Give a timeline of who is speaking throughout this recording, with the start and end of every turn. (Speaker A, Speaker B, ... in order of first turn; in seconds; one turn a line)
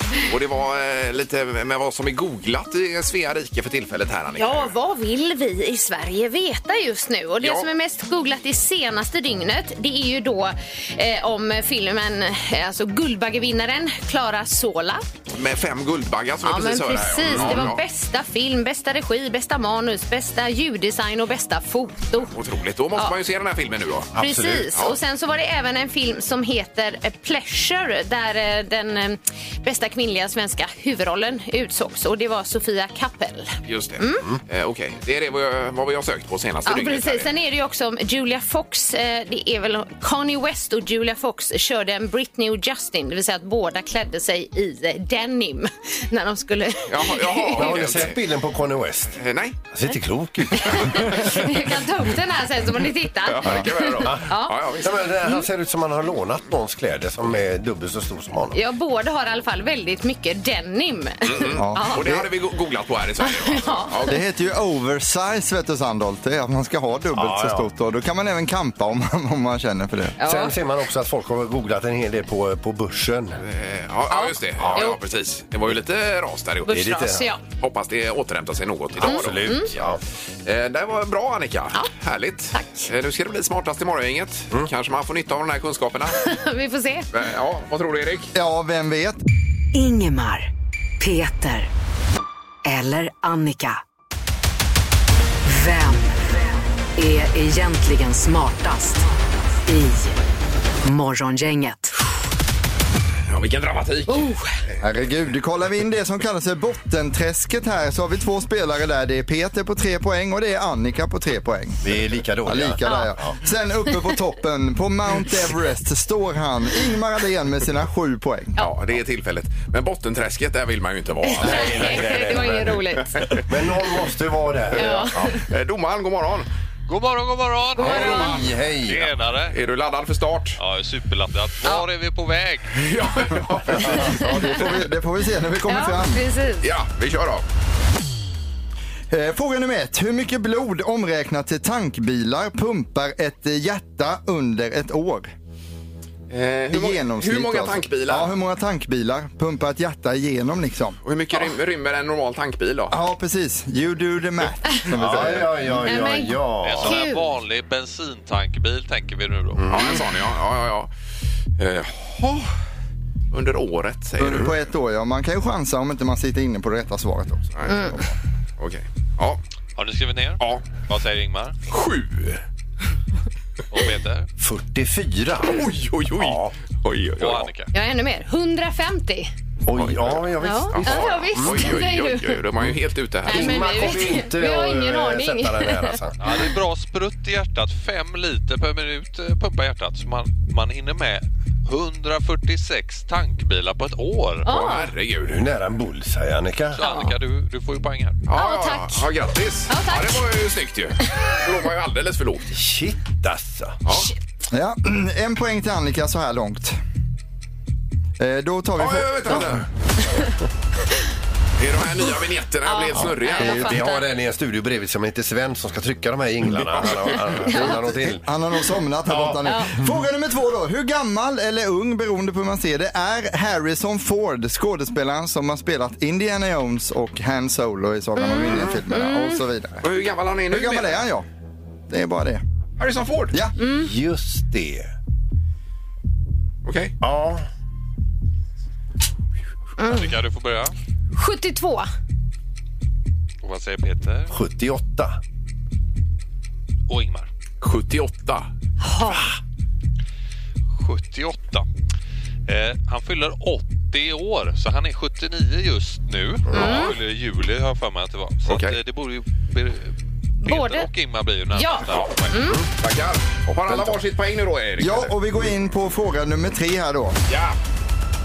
Speaker A: 0.2-4.7
Speaker B: 4.4-15.0
Speaker A: 7.4-7.7
Speaker A: 15.3-17.8
Speaker B: 16.4-22.3
Speaker C: 17.3-17.7
Speaker A: 22.3-24.1
Speaker C: 24.1-24.7
Speaker B: 24.2-34.2
Speaker A: 33.6-37.3
Speaker B: 36.6-47.8
Speaker A: 46.9-48.2
Speaker C: 47.5-51.4
Speaker A: 49.1-49.6
Speaker B: 50.5-55.4
Speaker A: 53.2-55.0
Speaker C: 54.0-58.6
Speaker B: 58.5-62.0
Speaker A: 61.2-64.1
Speaker D: 61.5-62.2
Speaker B: 63.2-64.1
Speaker D: 64.0-70.2
Speaker C: 67.1-67.7
Speaker B: 70.2-70.5
Speaker C: 70.2-73.4
Speaker A: 73.4-76.8
Speaker B: 74.1-75.0
Speaker C: 74.6-74.9
Speaker B: 76.7-77.4
Speaker C: 76.7-77.3
Speaker A: 77.5-86.2
Speaker C: 79.0-80.0
Speaker B: 79.0-79.7
Speaker B: 82.5-82.9
Speaker B: 86.2-87.1
Speaker A: 87.1-88.3
Speaker D: 88.3-89.2
Speaker E: 89.7-90.5
Speaker E: 91.0-91.7
Speaker E: 92.6-93.8
Speaker E: 95.5-96.4
Speaker E: 97.0-99.0
Speaker E: 99.7-100.2
Speaker E: 100.8-101.9
Speaker A: 103.3-104.7
Speaker B: 104.1-104.5
Speaker D: 104.8-111.8
Speaker C: 111.8-113.3
Speaker D: 112.4-118.7
Speaker B: 112.8-113.1
Speaker A: 118.6-122.4
Speaker B: 121.2-123.2
Speaker C: 121.4-122.8
Speaker A: 123.2-123.4
Speaker C: 123.4-125.4
Speaker B: 124.8-125.4
Speaker A: 124.8-126.5
Speaker F: 126.9-129.6
Speaker B: 127.8-128.4
Speaker C: 127.8-129.1
Speaker A: 129.5-130.6
Speaker F: 130.6-132.8
Speaker A: 132.8-134.0
Speaker D: 133.8-136.2
Speaker B: 135.7-136.7
Speaker A: 136.6-137.4
Speaker D: 139.1-145.3
Speaker A: 146.3-148.3
Speaker D: 146.7-151.0
Speaker A: 151.0-153.0
Speaker D: 152.9-155.9
Speaker C: 154.9-157.0
Speaker B: 155.9-157.2
Speaker F: 156.6-159.9
Speaker C: 159.5-160.0
Speaker A: 159.7-160.9
Speaker A: 161.6-162.5
Speaker A: 163.3-164.6
Speaker D: 164.2-168.1
Speaker A: 167.6-167.9
Speaker B: 167.7-167.9
Speaker A: 168.6-169.4
Speaker F: 169.8-171.5
Speaker A: 170.4-170.7
Speaker A: 171.7-172.4
Speaker F: 173.7-174.3
Speaker C: 174.4-176.5
Speaker A: 175.4-177.5
Speaker F: 177.2-177.7
Speaker B: 177.7-179.3
Speaker C: 179.7-181.7
Speaker A: 179.7-183.6
Speaker B: 180.4-182.4
Speaker C: 183.2-186.2
Speaker B: 183.3-186.4
Speaker F: 186.2-194.5
Speaker B: 194.4-194.9
Speaker A: 194.5-195.4
Speaker C: 195.2-196.8
Speaker F: 196.7-198.2
Speaker B: 196.8-197.1
Speaker A: 198.3-202.5
Speaker B: 198.3-199.1
Speaker B: 199.7-200.2
Speaker C: 202.5-203.8
Speaker D: 204.5-206.8
Speaker D: 208.2-209.5
Speaker A: 208.8-209.7
Speaker A: 211.6-213.8
Speaker B: 212.7-214.1
Speaker D: 213.3-213.7
Speaker C: 213.4-218.3
Speaker B: 217.5-217.8
Speaker D: 217.5-229.8
Speaker C: 219.0-219.9
Speaker B: 228.2-229.4
Speaker A: 229.8-231.1
Speaker D: 230.5-231.2
Speaker D: 231.9-232.4
Speaker A: 232.8-233.3
Speaker B: 233.6-233.9
Speaker C: 233.6-234.9
Speaker A: 236.6-236.9
Speaker C: 237.0-237.5
Speaker B: 239.8-240.1
Speaker F: 239.8-240.7
Speaker B: 241.2-241.9
Speaker F: 243.4-244.3
Speaker C: 244.3-245.2
Speaker F: 246.9-247.3
Speaker A: 247.6-248.5
Speaker B: 248.8-249.2
Speaker F: 250.8-251.6
Speaker F: 252.5-262.5
Speaker B: 256.5-256.9
Speaker A: 258.4-258.8
Speaker B: 260.4-260.9
Speaker B: 261.5-262.6
Speaker A: 261.9-262.1
Speaker A: 262.7-265.1
Speaker D: 263.7-263.9
Speaker D: 264.8-267.1
Speaker A: 267.3-267.6